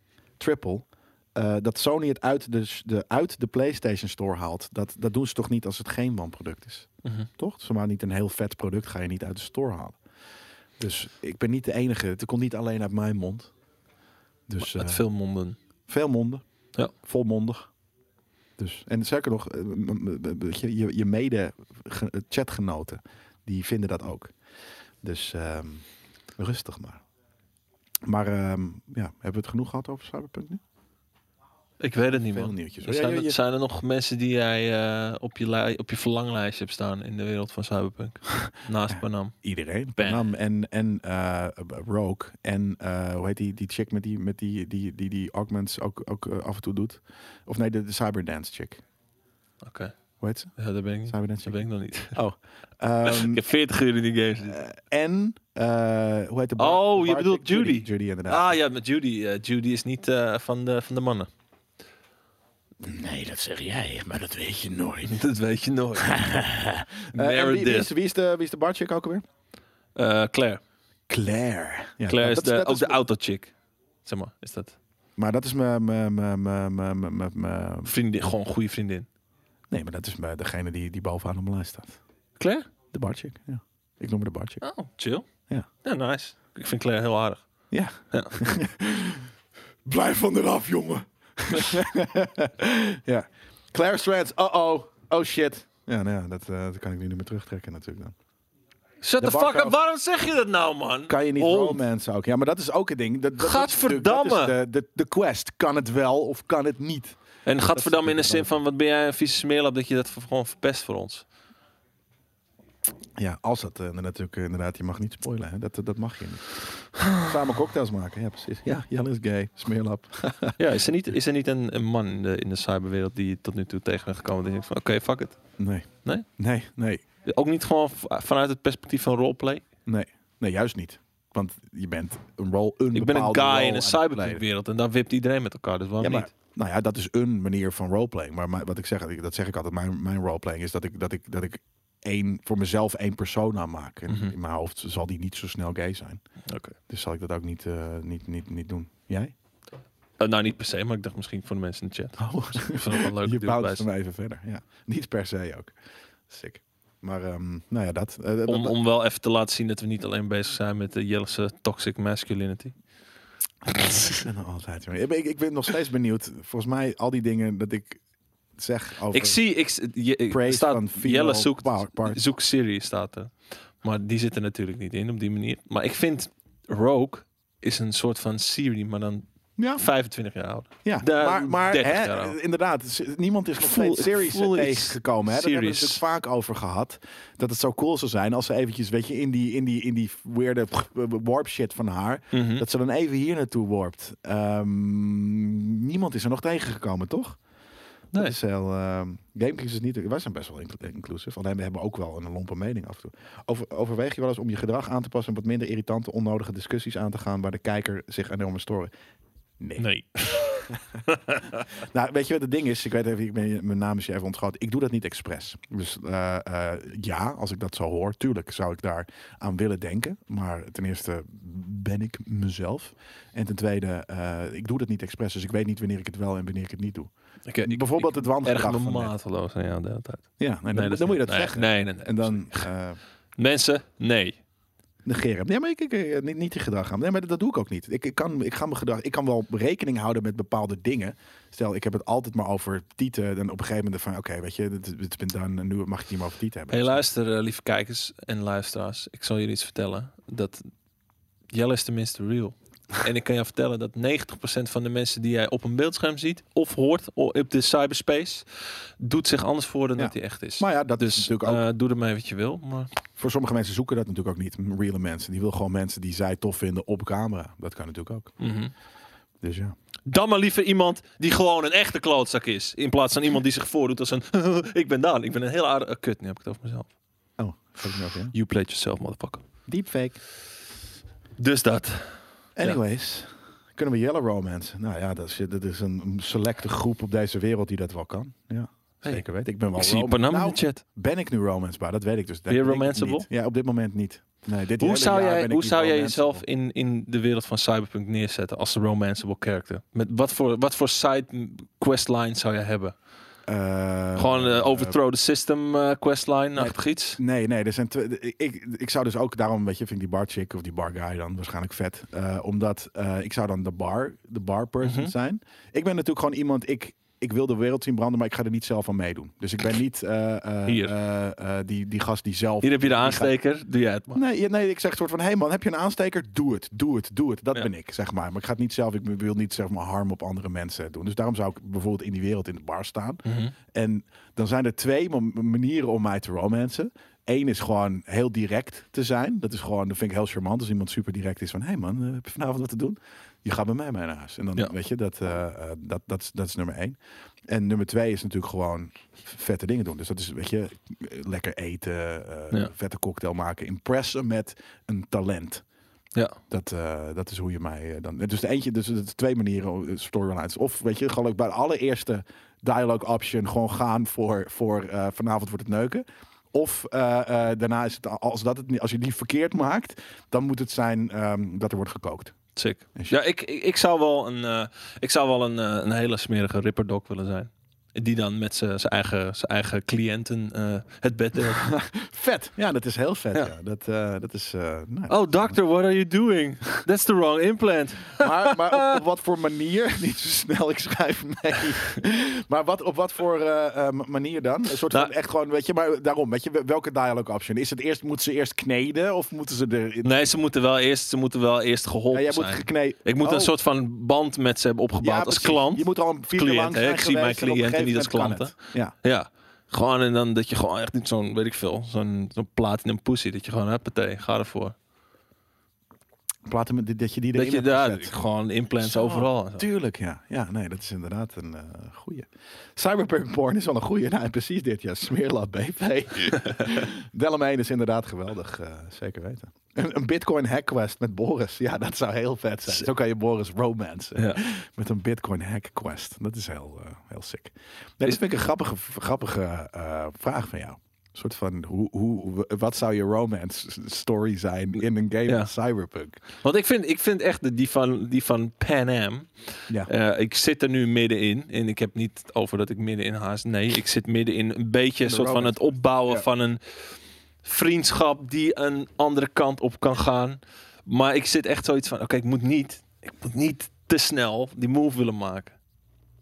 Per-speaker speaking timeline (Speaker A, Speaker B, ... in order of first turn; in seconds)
Speaker A: 0.4-10.0, 10.8-13.5, 14.5-15.0, 15.9-17.7, 18.6-24.3, 25.0-25.9, 26.4-27.0, 28.1-30.6, 32.3-33.4, 38.4-48.8, 50.2-50.5, 51.1-51.6, 52.1-53.4, 54.5-58.5, 62.8-65.2, 66.0-69.2, 71.1-73.0, 75.2-77.9, 79.7-82.0, 82.9-84.6, 87.7-89.3, 89.9-98.1, 99.2-99.8, 101.1-108.5, 113.2-120.6, 125.6-127.0, 129.9-134.4, 136.0-146.2, 146.9-149.3, 152.2-155.7, 156.3-158.8, 164.0-168.0, 168.6-169.4, 170.3-172.2, 179.6-179.9, 180.8-197.4, 198.2-208.9, 209.6-209.9, 211.7-227.1, 227.6-229.1, 230.4-233.0, 235.1-247.0, 260.0-261.6, 263.2-268.4, 269.4-269.7, 277.4-278.3, 279.7-280.2, 282.6-296.4, 303.5-305.0, 306.6-323.3, 324.1-347.0, 347.5-355.6, 356.5-372.4, 381.6-385.6, 388.2-400.1, 402.1-403.5, 405.0-408.9, 416.5-418.2, 418.8-446.2, 455.0-456.3
Speaker B: 7.0-7.3, 14.6-15.6, 31.8-39.4, 40.0-40.3, 49.6-50.0, 50.6-52.2, 53.0-54.6, 56.6-61.3, 65.0-66.5, 67.1-67.9, 70.0-70.6, 72.1-73.5, 74.0-74.8, 77.8-79.1, 82.4-82.7, 84.6-85.2, 85.8-87.4, 99.0-101.8, 103.4-104.6, 107.5-111.2, 120.6-125.4, 127.2-129.6, 132.9-136.3, 144.1-144.3, 146.5-146.8, 150.2-153.9, 158.5-162.7, 163.7-164.2, 169.1-179.2, 179.8-182.4, 183.6-186.0, 192.3-192.7, 209.8-211.6, 227.5-232.7, 233.4-234.4, 246.7-250.6, 251.5-262.9, 268.4-268.7, 270.1-276.9, 278.3-279.4, 281.4-282.8, 289.8-290.8, 292.5-293.3, 294.8-302.9, 304.2-307.2, 314.8-315.1, 320.7-320.9, 322.6-324.2, 333.2-333.6, 372.6-381.7, 385.1-389.0, 400.0-414.8, 417.3-419.6, 446.4-449.3, 449.9-465.6